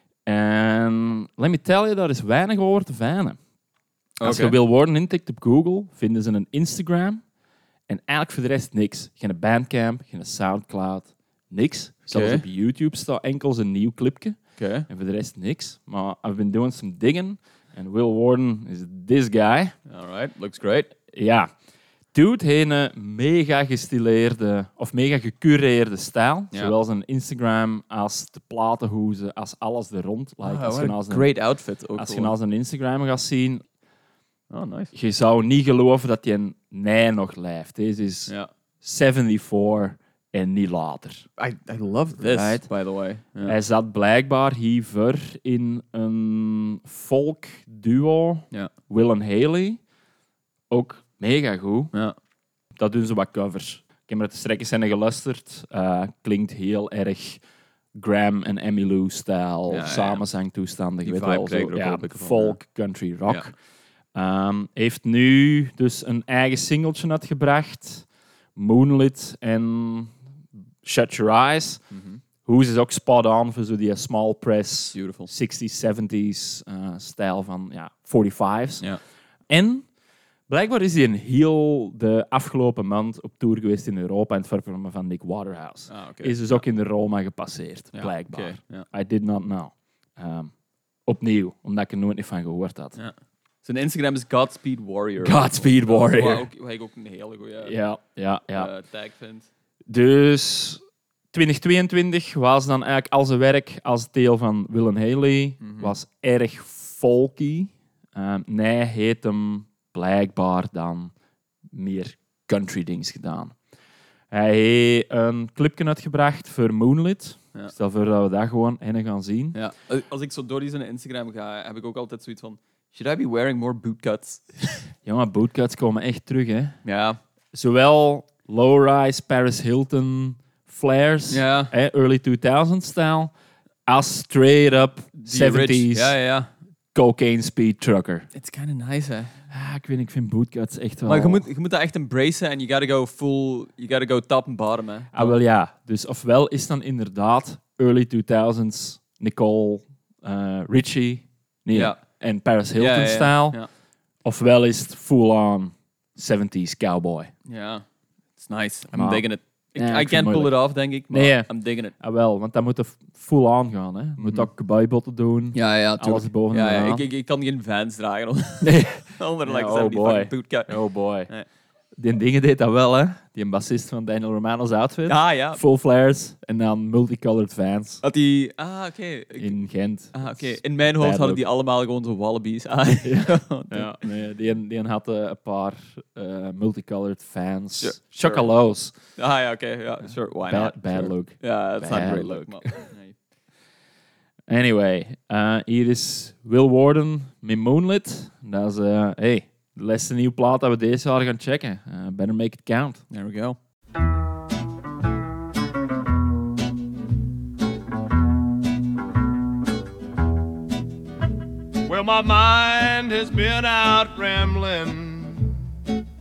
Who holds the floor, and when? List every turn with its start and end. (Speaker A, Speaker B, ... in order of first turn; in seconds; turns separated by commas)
Speaker A: 0.2-3.4, Speaker B: 4.2-4.6, Speaker A: 4.2-7.2, Speaker A: 7.9-14.4, Speaker B: 12.1-12.4, Speaker B: 14.6-14.9, Speaker A: 14.9-19.7, Speaker B: 19.9-20.9, Speaker A: 21.1-21.5, Speaker A: 22.1-31.3, Speaker B: 30.4-32.3, Speaker A: 31.9-33.6, Speaker B: 34.5-34.9, Speaker A: 34.9-38.3, Speaker A: 38.8-41.2, Speaker B: 41.4-43.5, Speaker A: 42.2-42.6, Speaker A: 43.4-49.8, Speaker A: 50.7-51.9, Speaker A: 52.7-57.4, Speaker A: 57.9-63.5, Speaker B: 59.7-60.2, Speaker B: 61.0-62.6, Speaker A: 64.1-68.0, Speaker A: 68.5-70.2, Speaker A: 70.8-71.8, Speaker B: 71.9-72.2, Speaker A: 72.4-78.8, Speaker B: 74.9-75.3, Speaker A: 79.5-79.8, Speaker A: 80.5-90.5, Speaker B: 85.9-86.6, Speaker B: 87.9-88.8, Speaker A: 91.0-93.0, Speaker B: 93.0-97.8, Speaker A: 95.2-96.4, Speaker A: 97.6-98.7, Speaker B: 98.5-99.5, Speaker A: 99.9-100.8, Speaker A: 101.3-111.1, Speaker B: 105.6-105.9, Speaker A: 111.7-113.5, Speaker A: 114.3-119.6, Speaker B: 119.5-124.8, Speaker A: 125.0-126.8, Speaker B: 126.8-127.2, Speaker A: 127.5-133.3, Speaker B: 131.3-131.7, Speaker A: 133.9-136.1, Speaker B: 135.2-136.5, Speaker A: 136.9-138.2, Speaker B: 138.3-139.3, Speaker A: 139.5-141.4, Speaker B: 141.1-145.3, Speaker A: 145.1-153.6, Speaker B: 151.7-152.0, Speaker B: 152.8-153.7, Speaker A: 154.2-157.3, Speaker B: 157.5-157.8, Speaker B: 158.4-161.9, Speaker A: 158.9-159.2, Speaker A: 159.8-160.5, Speaker A: 161.1-167.0, Speaker B: 164.2-164.5, Speaker B: 165.5-170.8, Speaker A: 168.6-171.3, Speaker A: 172.0-178.0, Speaker B: 175.1-175.6, Speaker B: 178.0-179.6, Speaker A: 179.4-181.4, Speaker B: 180.1-184.0, Speaker A: 183.0-188.9, Speaker B: 187.8-188.5, Speaker B: 189.2-193.2, Speaker A: 190.5-192.8, Speaker A: 194.5-203.0, Speaker B: 203.1-203.6, Speaker C: 211.8-215.7